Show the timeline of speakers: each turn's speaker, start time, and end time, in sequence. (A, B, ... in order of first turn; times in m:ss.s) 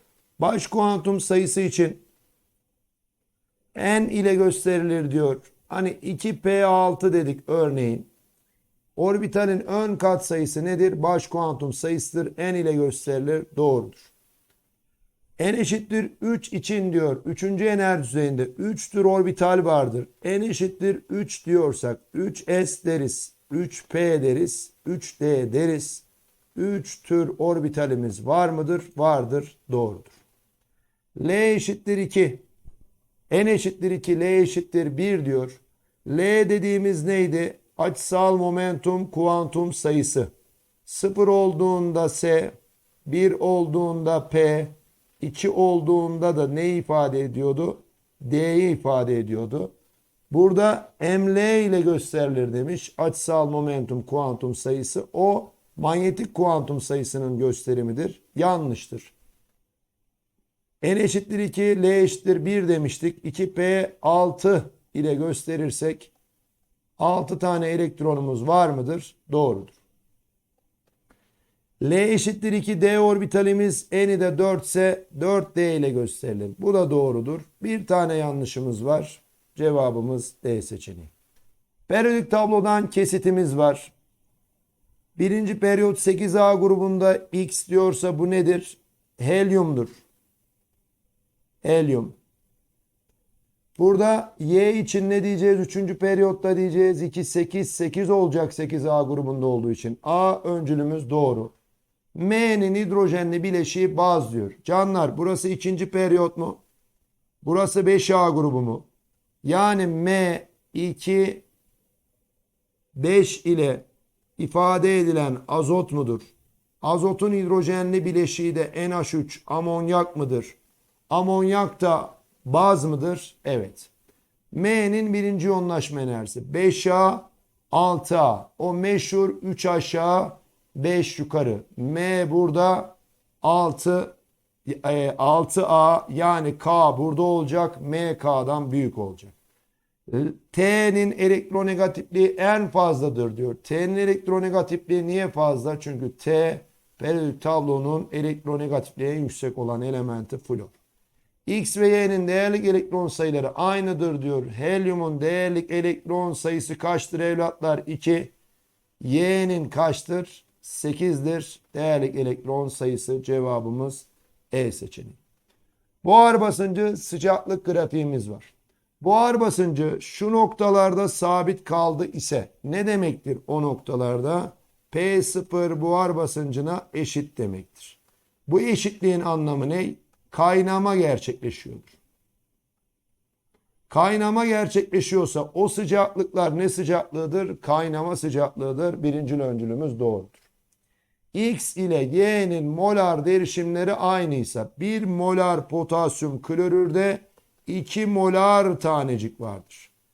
0:00.4-0:02.0 A
0:03.7-0:08.1 A
0:09.0-0:14.1 A
0:15.4-0:30.2 A
0:31.2-0:32.4 A
0:33.3-0:40.3 A
0:40.9-0:49.7 A
0:50.3-0:59.1 A
1:00.8-1:06.1 A
1:07.0-1:09.8 A
1:11.8-1:21.1 A
1:21.9-1:23.9 A
1:25.2-1:30.0 A
1:31.6-1:32.2 A
1:33.8-1:41.6 A
1:42.2-1:46.6 A
1:47.4-1:48.9 A
1:49.4-1:51.4 A
1:52.9-1:53.9 A
1:54.4-2:00.6 A
2:01.1-2:03.9 A
2:04.5-2:19.4 A
2:20.1-2:30.8 A
2:31.5-2:38.3 A
2:39.0-2:45.2 A
2:46.0-3:02.0 A
3:03.9-3:10.4 A
3:11.3-3:19.9 A